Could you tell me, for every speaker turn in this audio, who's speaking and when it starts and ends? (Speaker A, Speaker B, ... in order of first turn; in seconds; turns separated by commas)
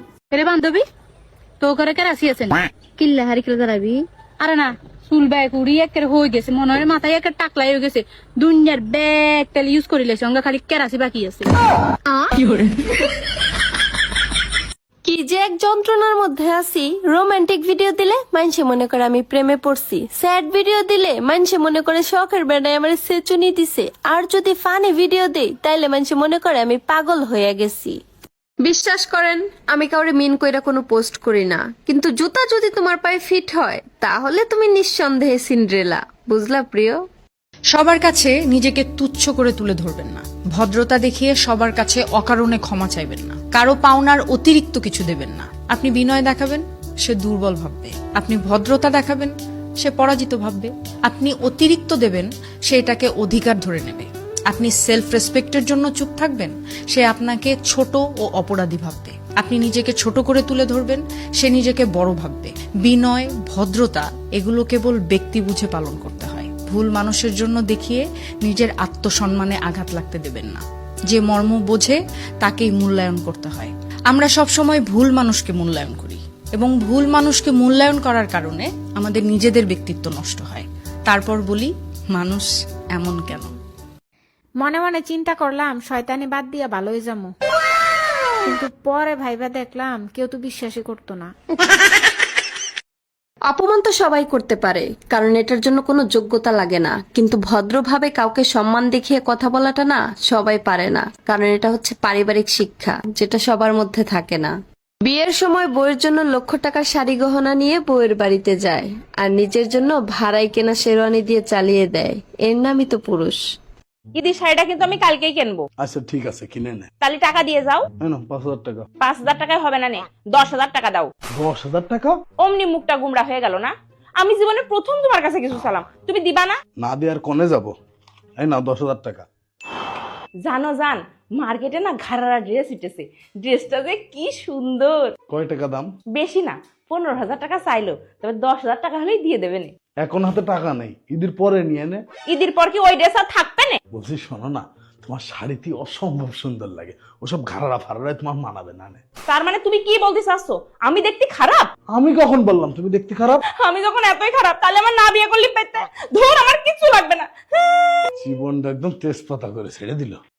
Speaker A: 0.3-0.8, Speaker A: 1.6-11.5, Speaker A: 12.1-12.5, Speaker B: 15.1-28.0, Speaker B: 28.6-37.0, Speaker C: 37.7-83.5, Speaker D: 84.6-87.3, Speaker D: 88.5-91.3, Speaker B: 93.5-104.5, Speaker B: 105.0-113.4, Speaker E: 114.2-115.6, Speaker F: 115.8-116.8, Speaker E: 117.0-117.8, Speaker F: 118.0-118.8, Speaker E: 119.0-121.1, Speaker F: 121.4-122.1, Speaker E: 122.4-126.6, Speaker F: 126.8-127.7, Speaker F: 128.4-129.3, Speaker E: 130.4-135.1, Speaker F: 135.3-135.9, Speaker E: 136.2-139.7, Speaker F: 140.0-142.0, Speaker E: 142.3-143.8, Speaker F: 143.9-149.0, Speaker E: 149.3-151.7, Speaker F: 151.9-153.4, Speaker E: 153.6-157.3, Speaker F: 158.2-160.2